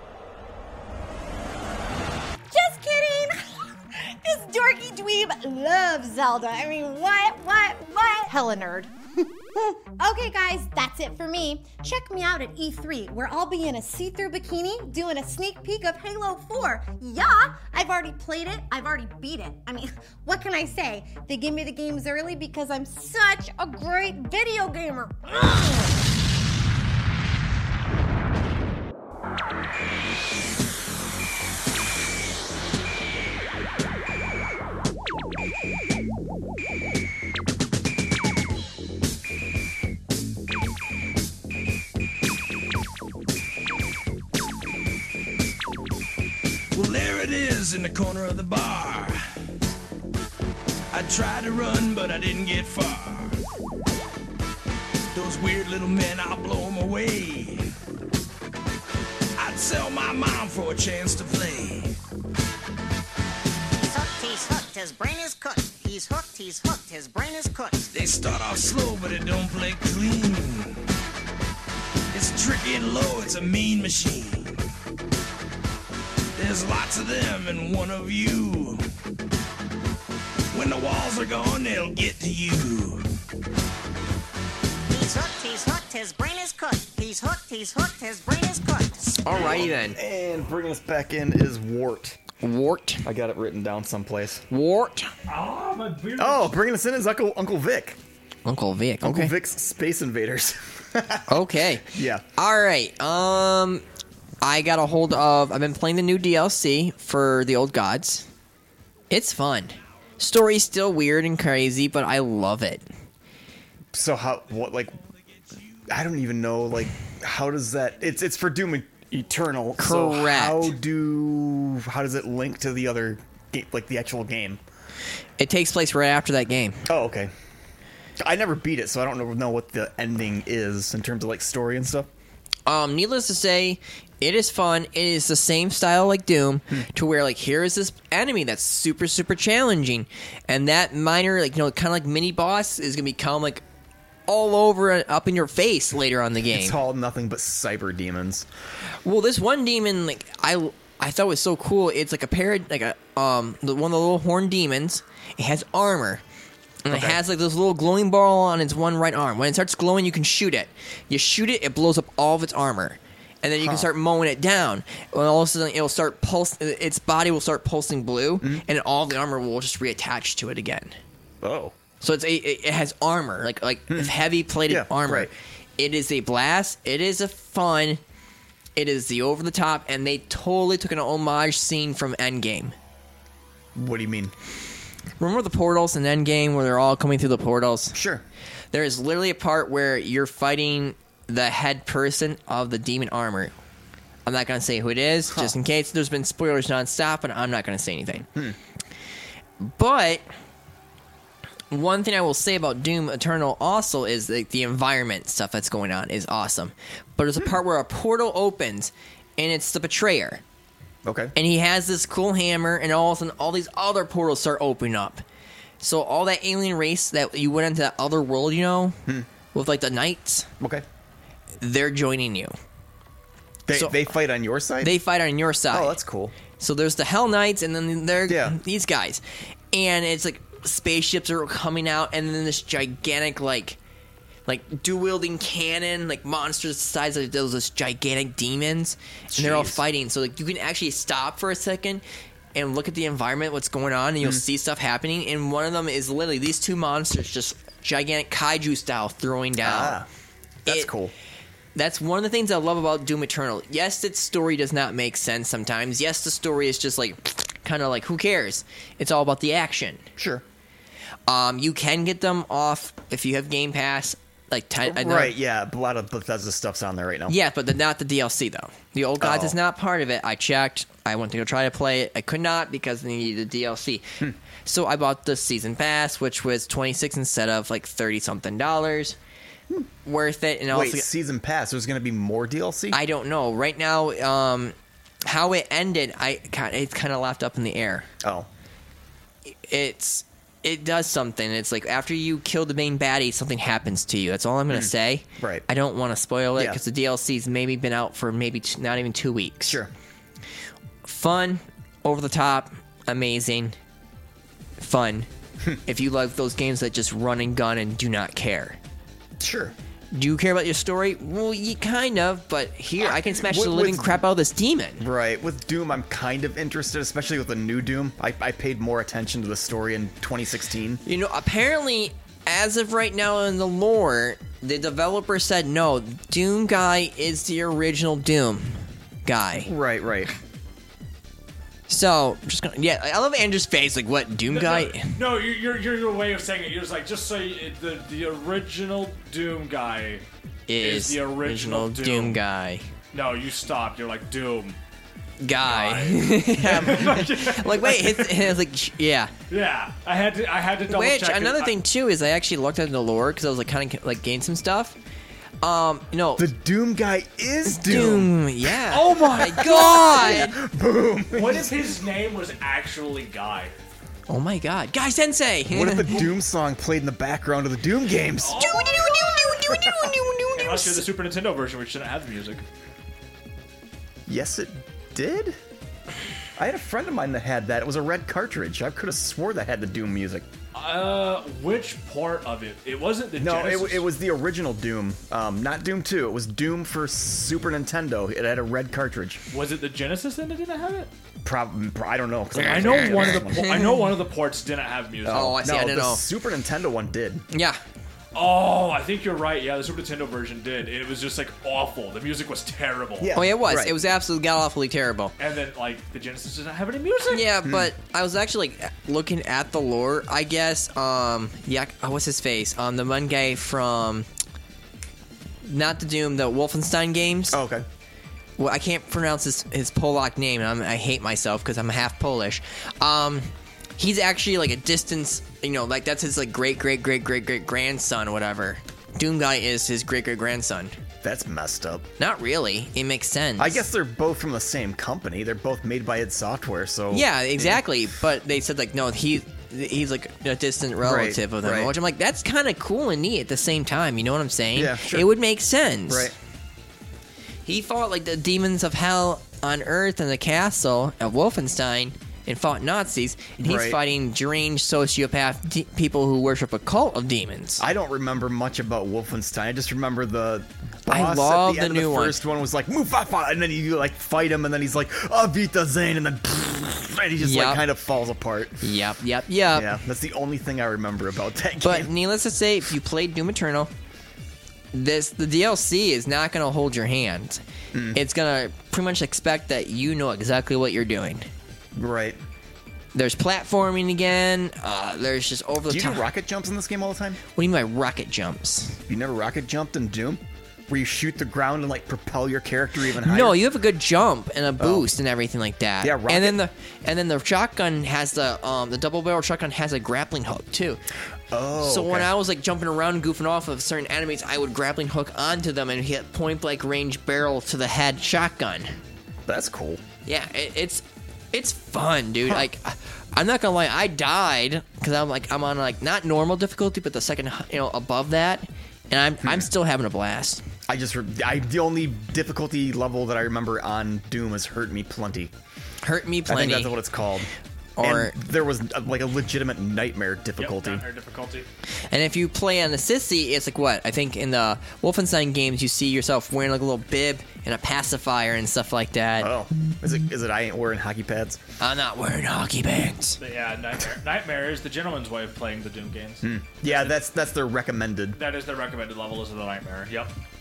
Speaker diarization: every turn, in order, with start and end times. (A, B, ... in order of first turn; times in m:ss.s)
0:02.5-0:26.0 A
0:46.7-0:49.2 B
0:50.9-0:53.4 B
0:55.1-0:57.7 B
0:59.4-1:02.0 B
1:03.7-1:07.9 C
1:07.9-1:10.8 B
1:12.1-1:14.5 B
1:16.4-1:18.8 B
1:20.5-1:23.1 B
1:24.9-1:29.2 C
1:29.2-1:30.0 D
1:29.3-1:32.2 E
1:32.4-1:33.0 D
1:33.0-1:34.4 E
1:34.5-1:35.1 D
1:35.3-1:36.5 F
1:36.2-1:38.0 E
1:38.4-1:39.3 D
1:39.0-1:42.2 E
1:41.3-1:43.8 D
1:44.4-1:48.2 D
1:49.1-1:52.8 D
1:53.9-1:55.0 E
1:55.9-2:04.6 E
1:59.8-2:00.7 D
2:05.4-2:06.8 D
2:06.9-2:07.3 E
2:08.2-2:12.1 E
2:12.6-2:23.6 D
2:24.3-2:26.8 D
2:26.5-2:28.5 E
2:29.0-2:36.2 D
2:36.8-2:51.0 D
2:36.9-2:37.2 E
2:43.6-2:43.9 E
2:51.4-2:51.7 E
2:52.0-2:58.0 D
2:54.7-2:55.3 E
2:58.8-3:02.7 D
3:03.7-3:04.3 E
3:05.2-3:08.0 D
3:07.9-3:08.2 E
3:08.7-3:13.5 D
3:14.2-3:18.3 D
3:19.6-3:20.2 D
3:21.7-3:30.4 D
3:31.0-3:31.3 E
3:31.3-3:35.2 D
3:35.8-3:39.0 D
3:39.5-3:40.5 D
3:40.6-3:40.8 E
3:41.6-3:42.5 D
3:43.7-3:45.0 E
3:43.7-3:44.0 D
3:44.8-3:46.0 D
3:45.7-3:46.4 E
3:46.6-3:53.8 D
3:48.3-3:48.6 E
3:54.5-4:02.0 D
3:59.3-3:59.8 E
4:02.5-4:10.0 D
4:09.6-4:10.1 E
4:10.6-4:10.9 D
4:10.6-4:11.1 E
4:11.7-4:20.0 D
4:20.2-4:20.4 E
4:21.3-4:25.3 D
4:24.8-4:27.3 E
4:27.3-4:39.2 D
4:29.2-4:29.6 E
4:40.0-4:41.1 D
4:40.7-4:43.0 E
4:42.9-4:48.1 D
4:48.2-4:48.5 E
4:49.5-4:59.8 D
4:54.7-4:55.6 E
5:01.0-5:03.8 D
5:04.8-5:05.3 D
5:05.8-5:08.8 D
5:09.4-5:09.7 E
5:10.1-5:15.0 D
5:13.0-5:14.2 E
5:15.0-5:21.0 E
5:21.0-5:29.7 D
5:29.6-5:30.3 E
5:31.9-5:35.1 D
5:34.5-5:40.2 F
5:40.7-5:42.9 D
5:40.8-5:42.4 F
5:43.1-5:44.8 F
5:45.4-5:49.3 D
5:45.6-5:48.5 F
5:46.6-5:47.2 E
5:49.5-5:51.7 F
5:50.9-5:55.0 D
5:55.6-5:56.5 D
5:56.4-6:01.8 E
5:57.7-6:00.6 D
5:58.9-6:00.5 F
6:01.3-6:03.7 F
6:04.3-6:06.2 D
6:05.7-6:09.0 E
6:08.4-6:09.6 F
6:08.5-6:11.0 D
6:09.6-6:10.1 E
6:10.5-6:12.6 F
6:14.3-6:15.6 E
6:16.6-6:20.4 E
6:20.7-6:24.1 F
6:23.4-6:29.4 E
6:29.5-6:31.1 F
6:31.4-6:33.9 E
6:32.5-6:34.0 D
6:32.6-6:35.6 F
6:35.3-6:36.2 D
6:35.3-6:37.4 E
6:37.5-6:37.8 D
6:38.3-6:43.4 F
6:43.2-6:43.9 E
6:43.4-6:45.3 D
6:45.4-6:47.5 F
6:47.3-6:54.3 D
6:47.6-6:47.9 E
6:55.6-6:57.6 D
6:57.5-6:57.8 E
6:58.6-7:11.0 D
7:11.2-7:12.1 E
7:12.2-7:13.8 D
7:13.6-7:17.8 E
7:17.1-7:26.3 D
7:21.0-7:21.9 E
7:24.7-7:25.3 E
7:26.1-7:26.3 E
7:27.6-7:37.8 D
7:33.6-7:34.0 E
7:37.8-7:48.9 E
7:41.1-7:42.4 D
7:47.4-7:47.8 D
7:48.8-7:50.0 D
7:49.7-7:52.1 E
7:51.8-7:53.9 D
7:54.9-7:57.6 D
7:57.9-7:58.2 E
7:58.1-8:01.5 D
8:01.9-8:02.4 E
8:03.1-8:06.3 D
8:05.9-8:07.4 E
8:07.5-8:09.0 D
8:09.1-8:13.6 E
8:13.2-8:21.0 D
8:14.8-8:15.1 E
8:16.0-8:16.6 E
8:21.5-8:22.3 E
8:21.8-8:29.0 D
8:29.5-8:30.0 E
8:30.2-8:40.6 D
8:39.4-8:39.7 E
8:40.9-8:45.5 E
8:46.0-8:47.0 D
8:46.5-8:47.5 E
8:48.0-8:48.4 D
8:48.0-8:51.0 E
8:50.6-8:51.7 F
8:52.1-8:59.5 D
8:59.4-9:01.6 E
9:01.8-9:03.4 D
9:03.4-9:07.2 F
9:06.4-9:08.4 E
9:08.3-9:10.3 F